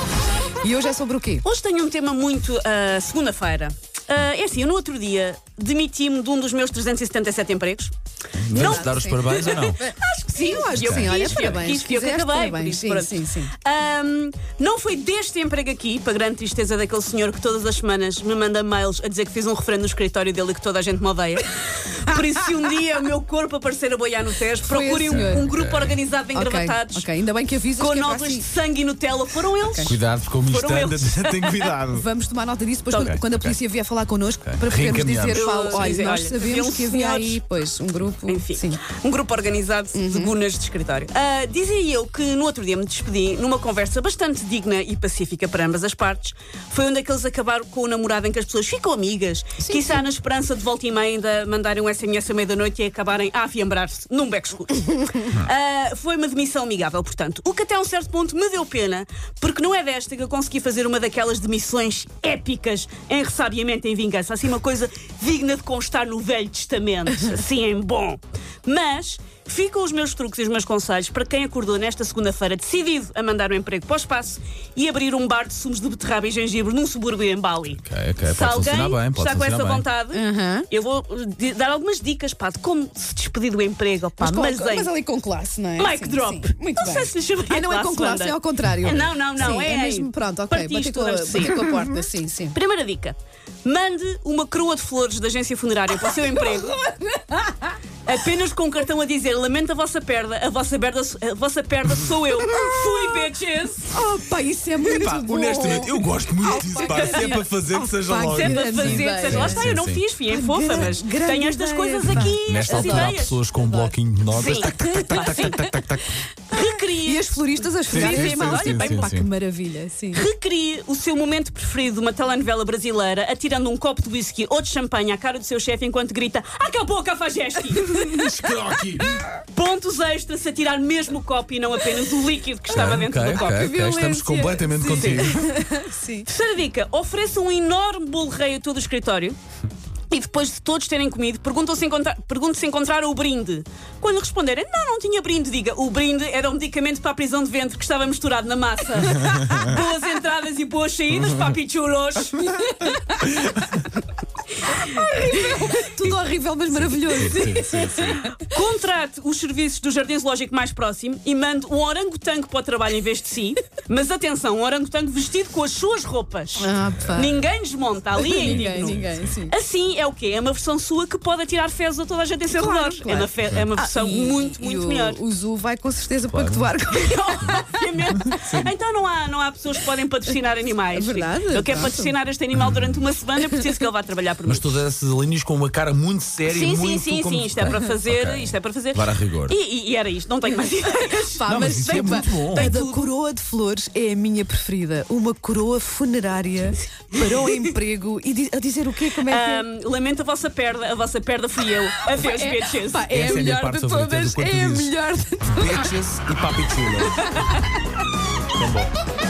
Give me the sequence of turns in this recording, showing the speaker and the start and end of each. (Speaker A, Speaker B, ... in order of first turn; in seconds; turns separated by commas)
Speaker A: 0.6-1.4, Speaker B: 1.4-7.9, Speaker C: 8.3-9.8, Speaker B: 8.5-27.1, Speaker A: 8.6-13.5, Speaker C: 10.7-11.6, Speaker A: 24.7-25.5, Speaker C: 25.1-26.0, Speaker A: 26.3-28.5, Speaker B: 27.8-31.8, Speaker A: 29.6-29.9, Speaker C: 29.8-32.0, Speaker A: 31.9-38.8, Speaker C: 33.0-33.6, Speaker C: 34.4-35.6, Speaker B: 35.3-37.4, Speaker B: 38.3-84.9, Speaker A: 39.9-40.3, Speaker A: 49.6-50.0, Speaker C: 77.8-79.8, Speaker A: 80.1-80.7, Speaker A: 84.2-92.5, Speaker B: 85.8-92.0, Speaker C: 88.8-89.5, Speaker B: 92.5-96.8, Speaker A: 97.3-97.6, Speaker B: 98.1-103.9, Speaker A: 103.9-109.7, Speaker C: 104.8-110.0, Speaker B: 106.8-107.4, Speaker B: 108.3-113.4, Speaker A: 110.3-116.0, Speaker C: 112.1-116.1, Speaker B: 114.3-115.7, Speaker B: 116.5-117.4, Speaker A: 116.5-120.2, Speaker B: 117.9-119.1, Speaker C: 117.9-119.3, Speaker B: 120.1-128.3, Speaker C: 128.1-129.2, Speaker B: 129.5-133.8, Speaker C: 132.7-135.5, Speaker A: 133.3-136.3, Speaker B: 134.9-135.3, Speaker B: 136.2-139.4, Speaker B: 140.1-152.5, Speaker A: 154.8-158.1, Speaker C: 156.7-158.2, Speaker B: 157.2-175.2, Speaker A: 166.6-167.4, Speaker A: 168.2-169.6, Speaker C: 168.7-169.3, Speaker A: 172.5-177.7, Speaker C: 176.3-176.7, Speaker B: 176.9-184.8, Speaker C: 178.2-178.7, Speaker A: 180.9-182.1, Speaker C: 182.6-183.0, Speaker C: 184.4-189.6, Speaker B: 186.5-193.1, Speaker A: 191.1-199.6, Speaker C: 191.5-192.7, Speaker B: 199.2-203.1, Speaker A: 202.1-206.0, Speaker C: 203.1-204.9, Speaker C: 205.4-207.2, Speaker A: 207.1-207.7, Speaker C: 208.6-208.9